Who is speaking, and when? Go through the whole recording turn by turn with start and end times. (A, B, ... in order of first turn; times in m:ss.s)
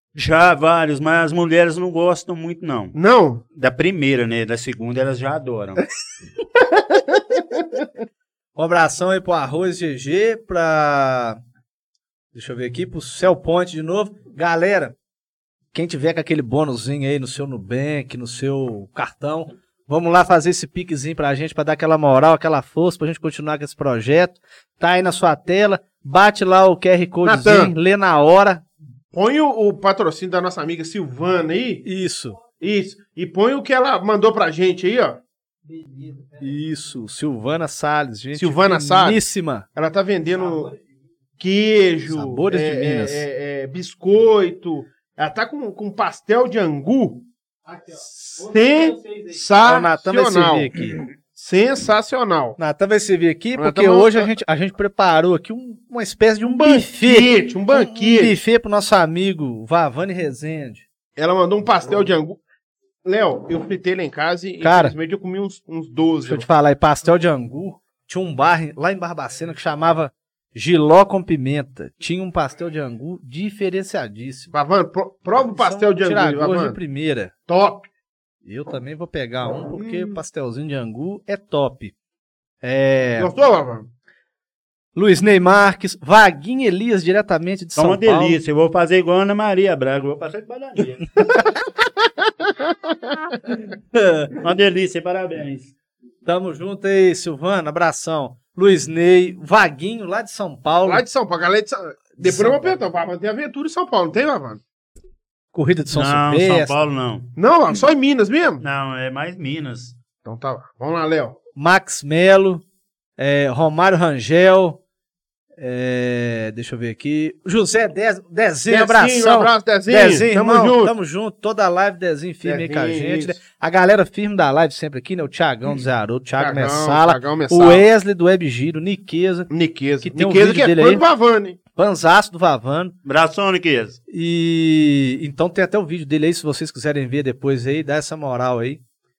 0:00.1-0:02.9 A
0:02.9-0:03.4 B
0:03.6-0:05.8 A
0:07.3-0:07.6 B
0:08.6-0:11.4 C
0:12.3-0:14.9 C
0:15.7-0:28.6 C
0:27.2-0:27.7 B
0:29.1-0:31.8 B
0:31.8-0:32.4 C
0:32.6-0:35.2 B
0:36.3-0:39.6 C
0:38.3-0:39.2 B
0:39.7-0:40.7 B
0:41.4-0:47.2 B
0:42.1-0:43.2 C
0:48.1-0:50.7 B
0:49.6-0:51.0 C
0:51.4-0:52.6 B
0:52.6-1:00.8 C
0:53.6-0:54.3 B
0:56.5-0:58.4 B
1:01.2-1:02.4 B
1:03.0-1:06.4 B
1:04.6-1:04.9 C
1:06.2-1:14.5 C
1:14.5-1:16.8 B
1:15.5-1:17.3 C
1:17.5-1:17.8 B
1:18.4-1:21.9 C
1:19.7-1:20.2 B
1:22.6-1:23.3 C
1:23.2-1:23.9 B
1:24.9-1:28.4 C
1:27.8-1:31.4 A
1:32.6-1:33.1 B
1:33.9-1:34.4 C
1:34.4-1:35.7 A
1:36.2-1:41.0 C
1:40.8-1:44.6 B
1:42.2-1:42.7 C
1:45.5-1:46.8 C
1:45.9-1:47.3 A
1:47.4-1:48.6 B
1:48.6-1:49.9 A
1:50.2-1:51.4 B
1:51.6-1:52.6 C
1:53.2-1:54.8 C
1:55.6-2:09.5 C
1:58.7-2:00.9 B
2:02.4-2:03.4 B
2:06.4-2:07.8 B
2:09.5-2:11.6 B
2:10.0-2:11.0 C
2:11.7-2:12.9 C
2:13.0-2:14.0 A
2:14.1-2:18.8 C